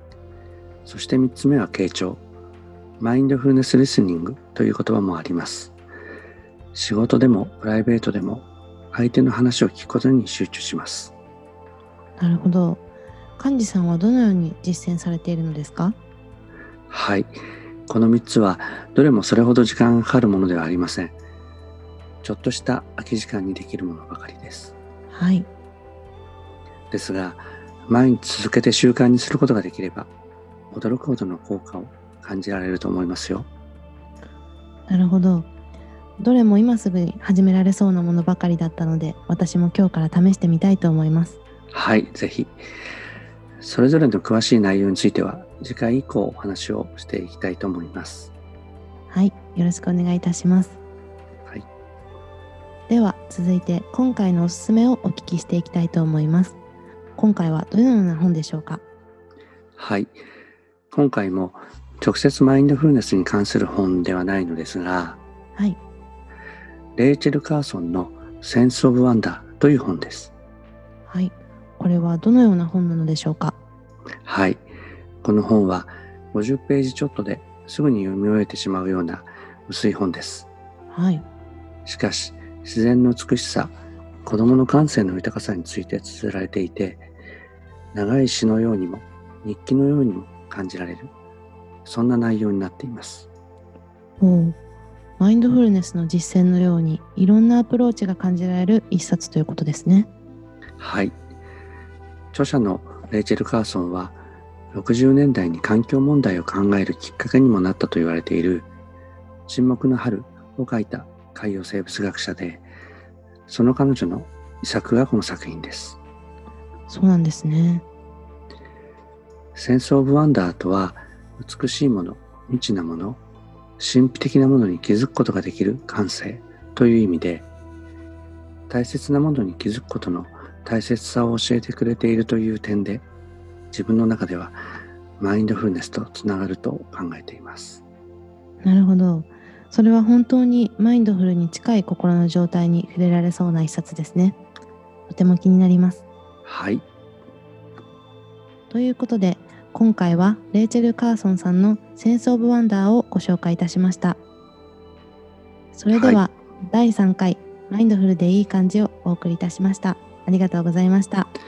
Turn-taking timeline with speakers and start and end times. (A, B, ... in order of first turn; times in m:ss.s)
0:00.9-0:02.2 A
0:03.0-0:05.7 A
0:06.7-0:11.1 A
0:12.2-0:12.8 B
0:13.4-0:16.0 B
0:16.9-0:17.4 A
0:17.9-0:21.2 A
0:22.2-0:24.8 A
0:25.1-0:25.5 B
0:26.9-0:30.1 A
0:30.7-0:33.5 A
0:34.9-0:35.5 B
0:36.2-0:41.4 B
0:41.7-0:42.6 A
0:43.6-0:48.3 A
0:49.1-0:50.8 B
0:52.9-0:56.6 B
0:57.2-0:58.8 B
0:59.8-1:00.2 A
1:00.9-1:05.2 A
1:07.0-1:10.3 A
1:11.1-1:13.6 B
1:14.3-1:14.7 A
1:15.2-1:20.5 A
1:20.9-1:21.2 B
1:21.8-1:23.7 A
1:24.2-1:27.1 A
1:27.9-1:31.1 A
1:31.8-1:33.3 A
1:34.2-1:34.6 B
1:35.2-1:40.1 B
1:40.8-1:41.1 A
1:42.3-1:44.2 A
1:44.7-1:48.7 A
1:49.5-1:52.6 A
1:53.5-1:56.0 A
1:56.9-1:57.8 B
1:59.6-2:03.2 A
2:03.8-2:07.5 A
2:08.7-2:13.0 A
2:13.7-2:14.6 A
2:15.2-2:17.8 A
2:18.6-2:24.4 B
2:25.1-2:26.0 B
2:26.4-2:26.8 A
2:28.7-2:34.2 B
2:35.7-2:41.3 B
2:35.9-2:36.2 A